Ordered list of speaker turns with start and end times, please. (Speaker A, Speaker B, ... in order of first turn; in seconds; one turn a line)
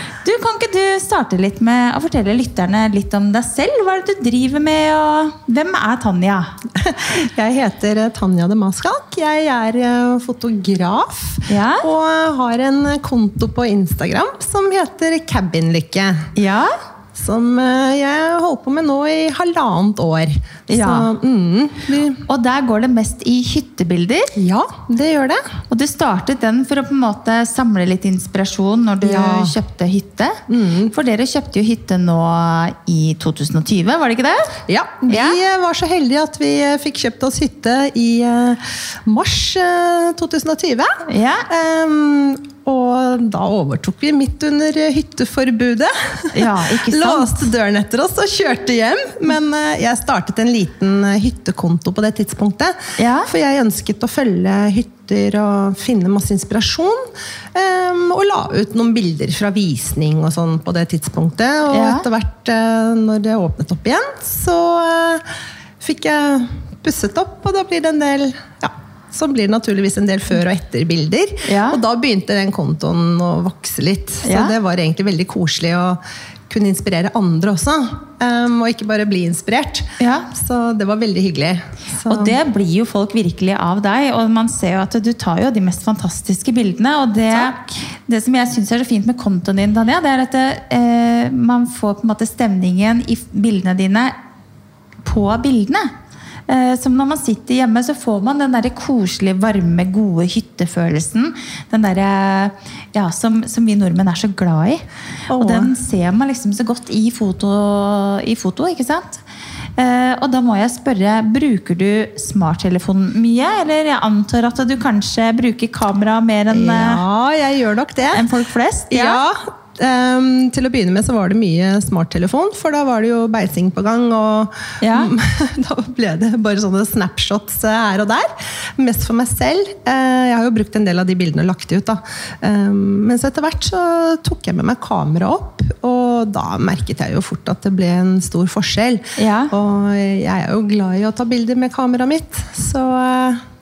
Speaker A: 0.2-6.5
Speaker B: 6.7-16.3
Speaker A: 11.5-11.9
Speaker A: 16.3-16.7
Speaker B: 17.1-22.2
Speaker A: 20.7-21.1
Speaker A: 22.2-24.3
Speaker B: 24.3-25.4
Speaker A: 25.7-35.4
Speaker B: 29.0-29.5
Speaker B: 30.5-30.9
Speaker B: 34.7-65.2
Speaker A: 41.1-41.5
Speaker A: 46.3-47.4
Speaker A: 53.0-53.3
Speaker A: 61.7-62.0
Speaker B: 65.8-82.3
Speaker A: 71.4-71.8
Speaker A: 74.2-74.5
Speaker A: 80.0-80.3
Speaker A: 82.0-94.1
Speaker A: 95.0-95.9
Speaker A: 96.5-109.2
Speaker B: 105.3-105.7
Speaker A: 109.8-117.0
Speaker B: 116.5-118.2
Speaker A: 118.1-119.2
Speaker B: 118.9-143.4
Speaker A: 124.8-125.1
Speaker A: 139.2-139.5